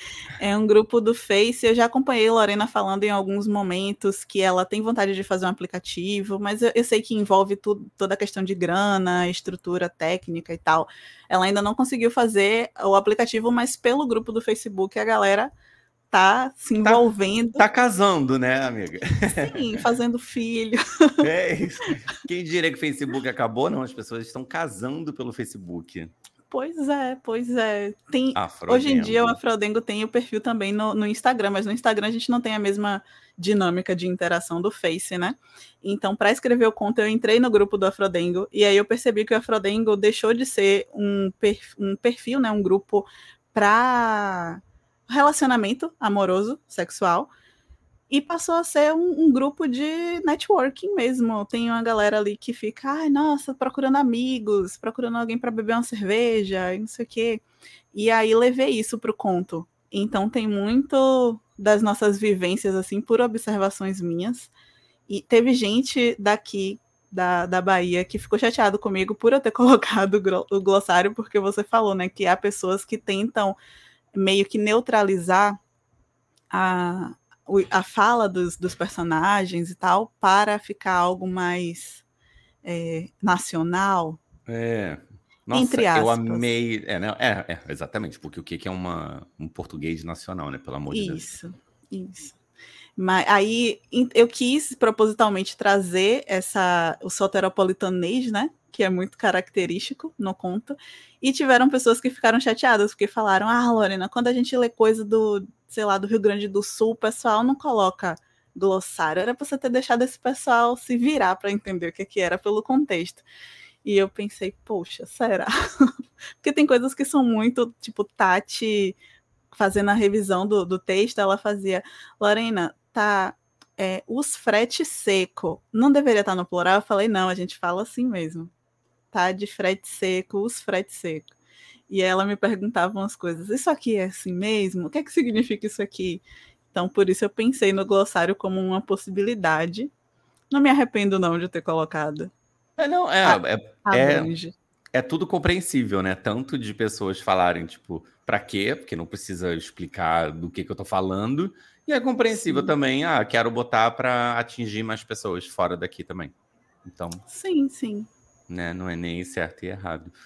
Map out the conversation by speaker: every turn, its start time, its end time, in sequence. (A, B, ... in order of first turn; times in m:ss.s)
0:00.4-0:15.5 A
0:16.1-0:17.6 A
0:16.8-0:19.8 B
0:19.3-0:21.2 A
0:21.2-0:26.1 B
0:26.5-0:47.3 A
0:28.3-0:29.4 B
0:48.1-0:57.4 A
0:57.9-1:04.5 A
1:05.1-1:13.6 A
1:14.1-1:15.6 A
1:16.5-1:22.0 A
1:22.6-1:24.2 A
1:24.5-1:31.2 B
1:25.5-1:26.4 A
1:30.9-1:32.3 A
1:33.0-1:53.2 A
1:53.8-1:59.0 A
1:59.5-2:08.5 A
2:09.1-2:11.3 A
2:11.9-2:19.9 A
2:20.5-2:22.3 A
2:22.8-2:24.3 B
2:23.2-2:24.5 A
2:24.9-2:36.3 B
2:32.3-2:32.7 A
2:36.8-2:37.2 B
2:37.3-2:38.1 A
2:38.5-2:40.1 B